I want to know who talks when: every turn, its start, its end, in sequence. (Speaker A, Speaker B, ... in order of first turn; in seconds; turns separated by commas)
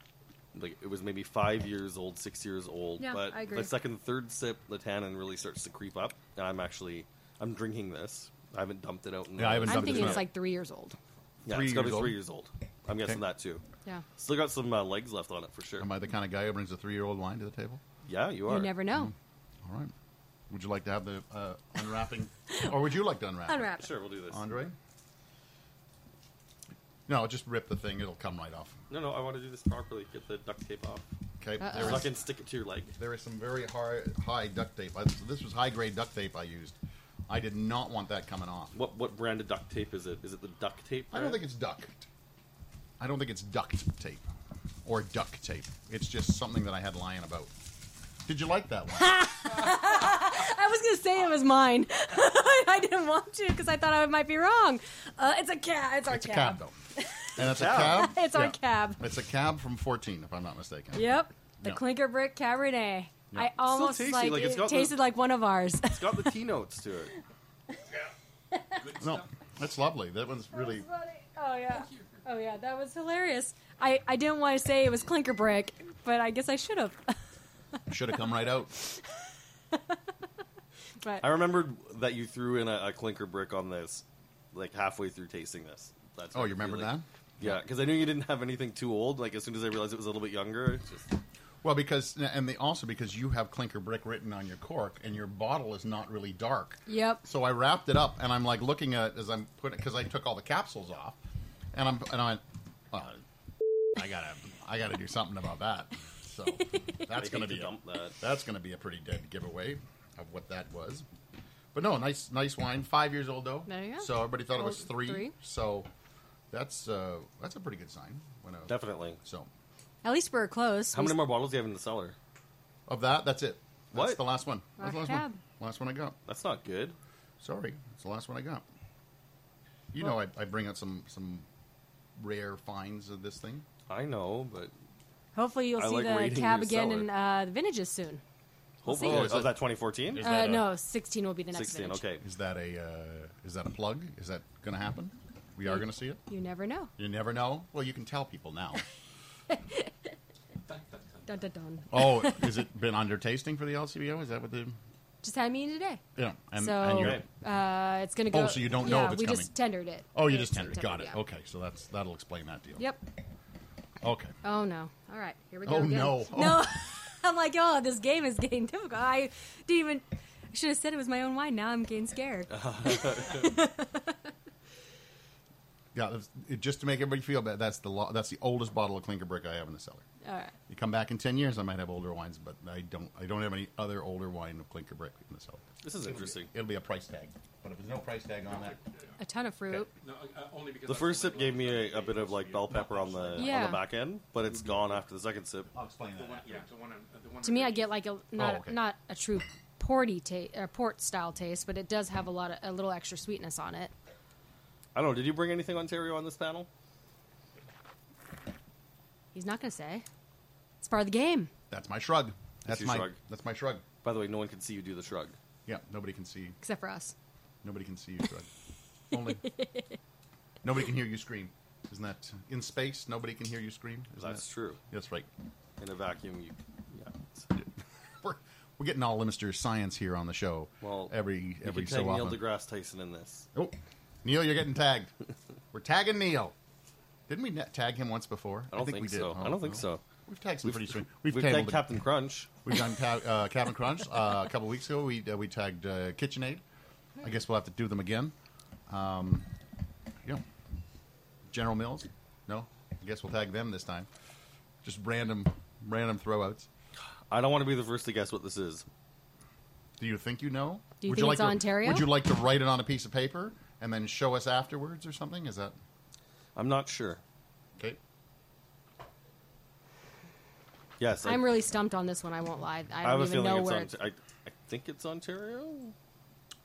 Speaker A: 0.5-10.3, Speaker B: 3.0-3.7, Speaker C: 9.3-10.2, Speaker B: 9.7-11.0, Speaker C: 11.4-12.2, Speaker A: 11.4-13.6, Speaker A: 14.2-15.9, Speaker C: 15.8-17.8, Speaker A: 18.1-18.8, Speaker B: 18.5-19.1, Speaker C: 19.6-19.9, Speaker C: 20.5-23.8, Speaker B: 23.5-23.9, Speaker A: 23.8-24.4, Speaker C: 24.3-24.7, Speaker C: 27.1-28.8, Speaker A: 28.9-31.1, Speaker C: 31.4-32.1, Speaker B: 31.6-32.1, Speaker A: 31.7-32.9, Speaker C: 33.0-36.8, Speaker C: 37.3-38.7, Speaker A: 38.7-41.4, Speaker C: 41.1-42.1, Speaker C: 43.0-44.2, Speaker C: 44.8-47.5, Speaker C: 48.2-49.2, Speaker B: 49.0-59.0, Speaker C: 56.1-56.7, Speaker C: 57.3-61.8, Speaker A: 57.4-58.1, Speaker B: 60.9-66.3, Speaker A: 63.6-65.0, Speaker A: 65.8-67.1, Speaker B: 68.5-68.8, Speaker D: 68.8-69.3, Speaker C: 69.0-70.8, Speaker B: 70.5-77.2, Speaker D: 71.7-72.2, Speaker C: 77.9-78.7, Speaker B: 78.7-79.2, Speaker B: 81.0-81.2, Speaker A: 81.2-91.1, Speaker C: 86.3-87.6, Speaker C: 91.6-101.2, Speaker B: 96.9-97.2, Speaker C: 101.7-103.2, Speaker C: 103.9-111.0, Speaker A: 107.1-108.2, Speaker C: 111.7-115.9, Speaker B: 113.7-115.3, Speaker C: 116.5-119.5, Speaker A: 118.7-119.2, Speaker B: 120.0-121.2, Speaker A: 120.9-122.2, Speaker C: 122.9-126.2, Speaker A: 123.9-124.2, Speaker B: 124.8-125.4, Speaker A: 126.3-127.0, Speaker C: 127.4-128.6, Speaker C: 129.9-131.4, Speaker C: 132.2-133.7, Speaker A: 133.9-134.7, Speaker B: 135.3-138.2, Speaker A: 135.8-137.1, Speaker A: 138.8-140.2, Speaker B: 138.8-139.3, Speaker C: 139.0-139.6, Speaker C: 140.1-140.7, Speaker B: 140.2-142.0, Speaker A: 141.5-142.2, Speaker C: 142.2-146.2, Speaker B: 145.6-146.9, Speaker C: 147.0-148.8, Speaker B: 149.5-149.9, Speaker D: 150.7-151.3, Speaker B: 151.2-152.5, Speaker C: 151.9-154.8, Speaker B: 155.2-156.0, Speaker C: 156.2-157.2, Speaker B: 156.6-161.2, Speaker A: 156.9-157.2, Speaker C: 158.3-159.5, Speaker C: 160.1-162.8, Speaker B: 162.8-163.0, Speaker C: 164.0-164.3, Speaker B: 164.4-174.2, Speaker C: 165.6-166.7, Speaker A: 172.5-173.6, Speaker C: 175.9-180.0, Speaker B: 180.2-180.5, Speaker C: 180.7-188.8, Speaker A: 185.8-186.5, Speaker D: 188.5-189.1, Speaker B: 189.2-189.9, Speaker D: 190.0-193.7, Speaker A: 190.8-195.7, Speaker B: 193.3-193.8, Speaker C: 194.5-195.0, Speaker C: 195.7-196.6, Speaker D: 196.1-198.0, Speaker B: 197.4-203.9, Speaker C: 198.4-198.8, Speaker A: 204.9-206.7, Speaker B: 209.3-210.0, Speaker B: 210.8-211.5, Speaker C: 211.7-213.8, Speaker A: 212.7-213.2, Speaker A: 214.0-215.4, Speaker C: 215.7-216.6, Speaker B: 216.6-217.1, Speaker C: 217.6-218.5, Speaker C: 219.1-219.5, Speaker C: 220.6-225.3, Speaker A: 224.2-224.8, Speaker A: 225.8-227.5, Speaker C: 228.2-232.4, Speaker A: 230.8-233.4, Speaker C: 233.5-235.1, Speaker C: 235.7-236.5, Speaker C: 237.3-241.9, Speaker A: 238.7-240.0, Speaker A: 240.6-242.6, Speaker C: 242.6-246.6, Speaker C: 247.2-248.3, Speaker C: 248.9-249.5, Speaker C: 251.5-254.1, Speaker C: 254.8-256.7, Speaker A: 257.3-258.8, Speaker C: 260.0-265.7, Speaker B: 261.0-262.1, Speaker A: 266.5-267.2, Speaker A: 271.0-271.5, Speaker B: 271.2-273.9, Speaker A: 273.0-275.9